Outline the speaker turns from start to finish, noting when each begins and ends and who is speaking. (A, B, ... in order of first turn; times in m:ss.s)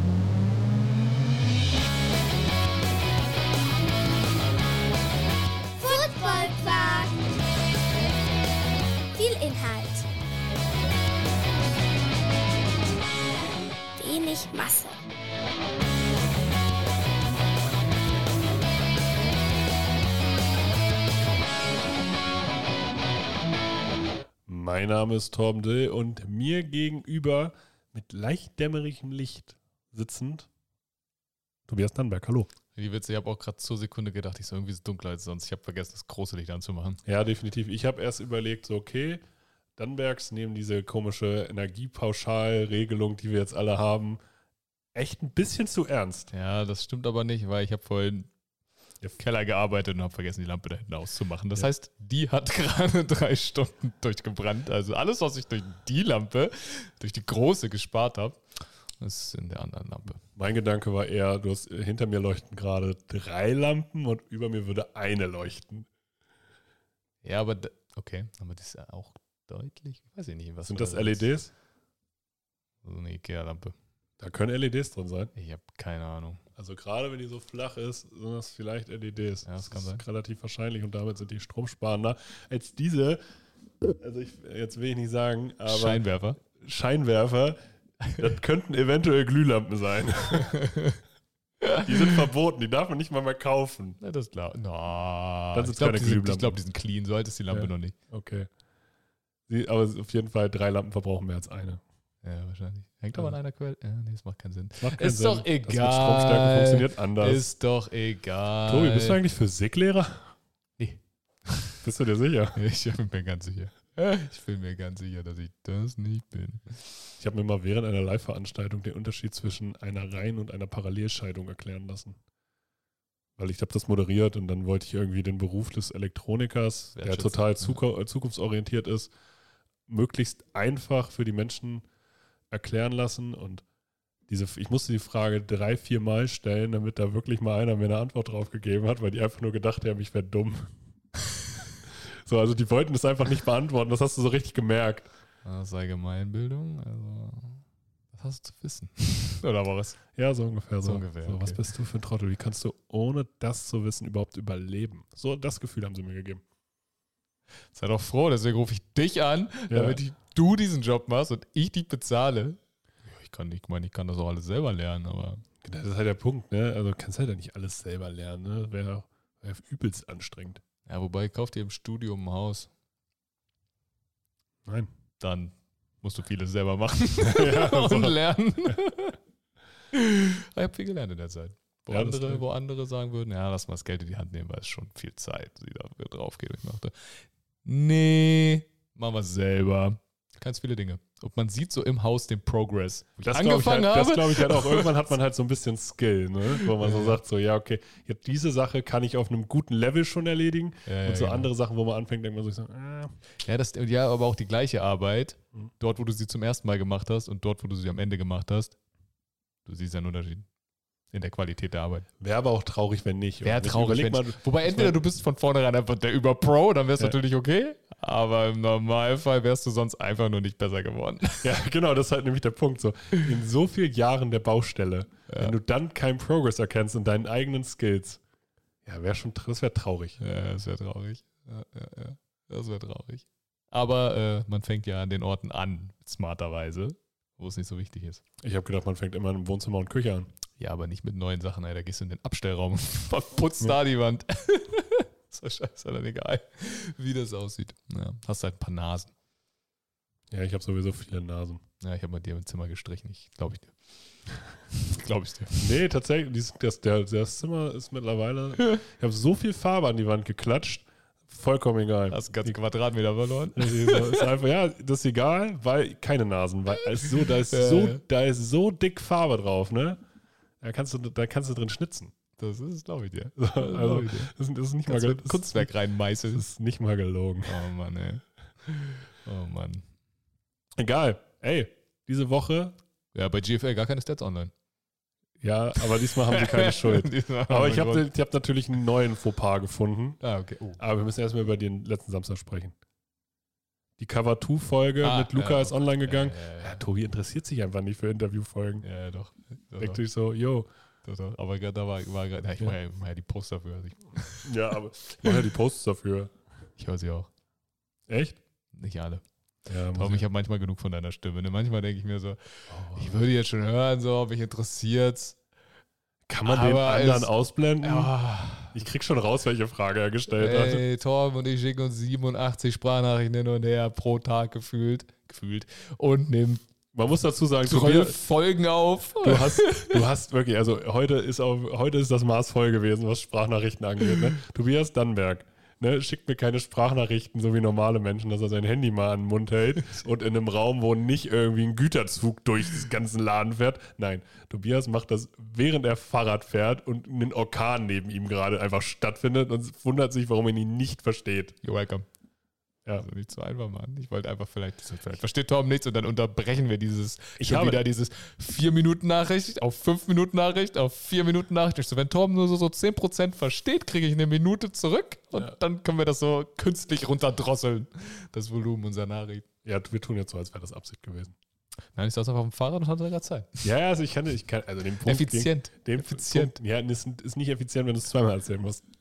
0:05.8-0:07.2 A
0:09.2-0:10.0 A
0:14.0-0:15.0 A
0:24.5-0:30.5 B
0:31.7-0:32.5 B
0:32.7-0:37.0 C
0:37.0-0:39.2 B
0:39.8-0:44.2 B
0:44.9-0:46.3 B
0:46.3-0:48.3 C
0:49.1-0:58.4 C
0:59.0-1:00.2 C
1:00.3-1:05.9 B
1:07.2-1:11.3 C
1:10.6-1:11.5 B
1:12.8-1:13.7 C
1:14.2-1:15.3 B
1:15.3-1:16.4 C
1:16.6-1:23.2 B
1:19.4-1:20.0 C
1:24.0-1:27.6 B
1:25.6-1:26.4 C
1:28.1-1:30.6 B
1:30.5-1:31.0 C
1:31.6-1:32.2 C
1:31.8-1:34.0 B
1:34.0-1:37.9 C
1:35.5-1:36.6 B
1:37.5-1:38.5 B
1:39.5-1:41.8 B
1:42.2-1:49.2 C
1:44.8-1:47.4 B
1:48.6-1:50.3 B
1:50.8-1:51.8 C
1:51.8-1:52.6 B
1:52.6-1:56.9 C
1:57.2-2:02.2 B
2:03.4-2:09.1 B
2:07.0-2:07.8 C
2:09.9-2:11.8 B
2:12.5-2:13.6 B
2:14.3-2:20.7 B
2:22.1-2:25.1 B
2:25.4-2:30.0 C
2:30.2-2:36.4 B
2:30.8-2:31.6 C
2:37.7-2:45.4 C
2:39.7-2:40.0 B
2:45.6-2:50.6 B
2:50.9-2:52.7 C
2:55.2-2:59.2 C
2:57.2-2:58.2 B
2:59.9-3:14.9 C
3:01.9-3:02.4 B
3:13.2-3:23.2 B
3:16.6-3:17.2 C
3:20.8-3:21.5 C
3:23.4-3:28.7 C
3:29.6-3:30.4 C
3:31.1-3:32.1 C
3:32.2-3:35.0 B
3:33.4-3:41.6 C
3:41.4-3:48.2 B
3:45.3-3:45.6 C
3:48.8-3:50.2 B
3:50.2-3:58.2 C
3:58.4-4:00.3 B
4:00.6-4:09.1 C
4:10.3-4:11.6 B
4:11.8-4:13.7 C
4:14.7-4:15.7 C
4:15.6-4:22.6 B
4:22.1-4:24.3 C
4:23.5-4:30.0 B
4:27.3-4:28.0 C
4:30.6-4:32.1 B
4:32.4-4:34.3 C
4:33.4-4:35.7 B
4:34.8-4:36.4 C
4:36.3-4:37.6 B
4:37.5-4:39.8 C
4:40.8-4:42.8 B
4:43.1-4:44.5 C
4:45.4-4:50.2 B
4:45.8-4:48.1 C
4:50.2-4:50.8 C
4:50.8-4:52.7 B
4:54.0-4:58.8 B
4:55.0-4:56.8 C
4:58.8-5:00.0 C
4:59.8-5:00.7 B
5:01.0-5:04.5 C
5:04.4-5:06.3 B
5:06.8-5:07.3 C
5:08.1-5:08.4 B
5:08.7-5:09.2 C
5:09.6-5:10.2 B
5:09.9-5:15.4 C
5:12.7-5:13.2 B
5:16.3-5:18.1 B
5:16.4-5:17.3 C
5:17.8-5:18.8 C
5:18.7-5:20.8 B
5:20.3-5:26.6 C
5:26.9-5:28.2 B
5:27.6-5:30.0 C
5:29.2-5:51.5 B
5:51.6-5:52.1 C
5:53.0-6:09.5 C
5:57.4-5:57.8 B
6:09.6-6:11.3 B
6:11.9-6:13.7 C
6:13.6-6:18.8 B
6:15.0-6:16.5 C